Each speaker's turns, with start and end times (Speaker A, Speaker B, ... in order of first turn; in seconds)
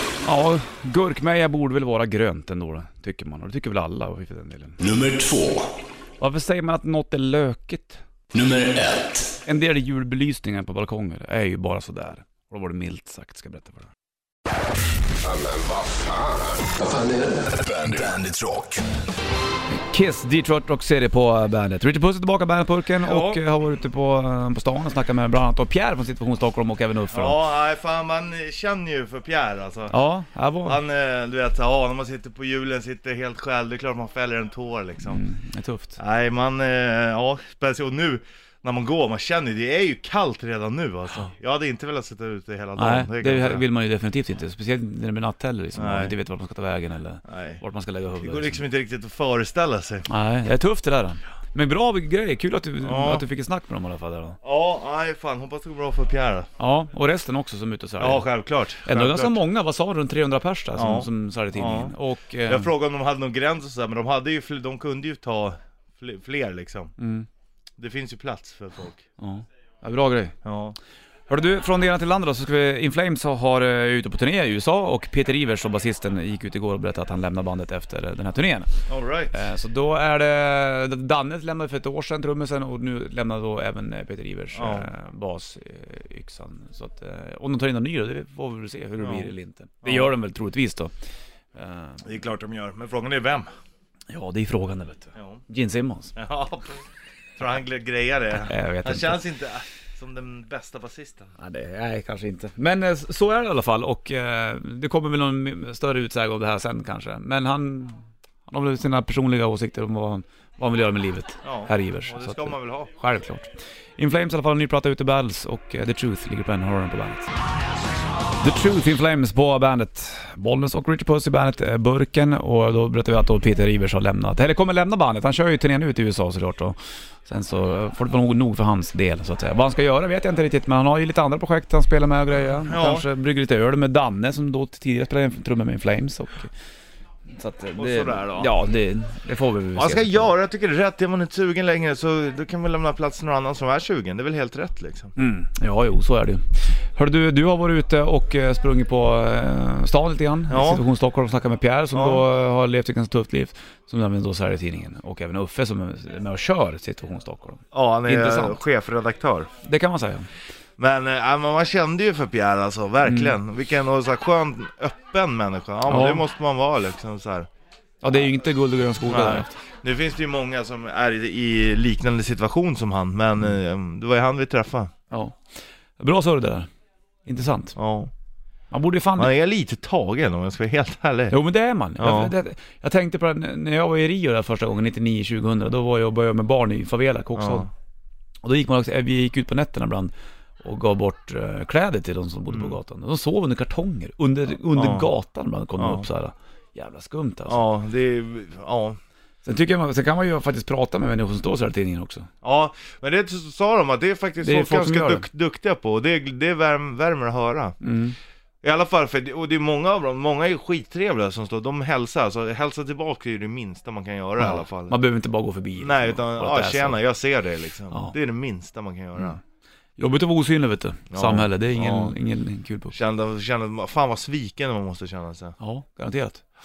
Speaker A: 0.2-4.8, 6.2-8.0, 9.4-13.9, 19.7-27.4, 29.9-30.8, 35.1-36.0, 42.8-48.6, 50.1-54.4, 56.6-58.3, 58.8-62.7, 67.0-67.3, 69.2-70.4, 71.3-90.9, 91.5-92.0, 94.1-96.1, 98.4-99.2, 101.4-117.4, 118.4-136.5, 137.3-140.3, 145.2-158.6, 159.6-160.3, 163.0-163.3, 165.9-166.2, 168.0-169.5, 175.1-176.7, 177.2-177.8, 178.7-179.3, 181.3-187.7, 188.4-197.6, 199.4-202.3, 204.4-205.2, 207.8-208.2, 214.4-217.0, 220.0-222.9, 225.6-226.4
Speaker B: 4.8-5.7, 8.3-9.3, 15.2-18.8
Speaker C: 23.0-23.4, 27.1-29.9, 30.7-35.2, 36.0-43.6, 45.8-46.1, 47.2-47.6, 48.2-50.1, 52.8-53.2, 54.4-56.5, 58.0-59.4, 60.8-62.0, 62.5-67.0, 67.8-69.0, 70.4-70.8, 78.9-79.3, 84.5-84.9, 89.0-89.3, 89.8-90.1, 92.0-93.5, 95.2-95.4, 96.2-96.8, 97.4-101.3, 111.4-112.9, 132.7-133.1, 137.8-138.5, 139.8-145.2, 150.5-150.8, 151.9-152.2, 157.7-159.5, 160.8-167.5, 169.1-174.9, 177.8-178.1, 179.2-181.3, 182.0-182.3, 187.4-187.7, 192.5-192.8, 194.7-195.1, 195.8-196.1, 197.5-199.0, 202.4-207.8, 208.6-214.9, 215.8-219.4, 221.1-222.2, 222.9-225.6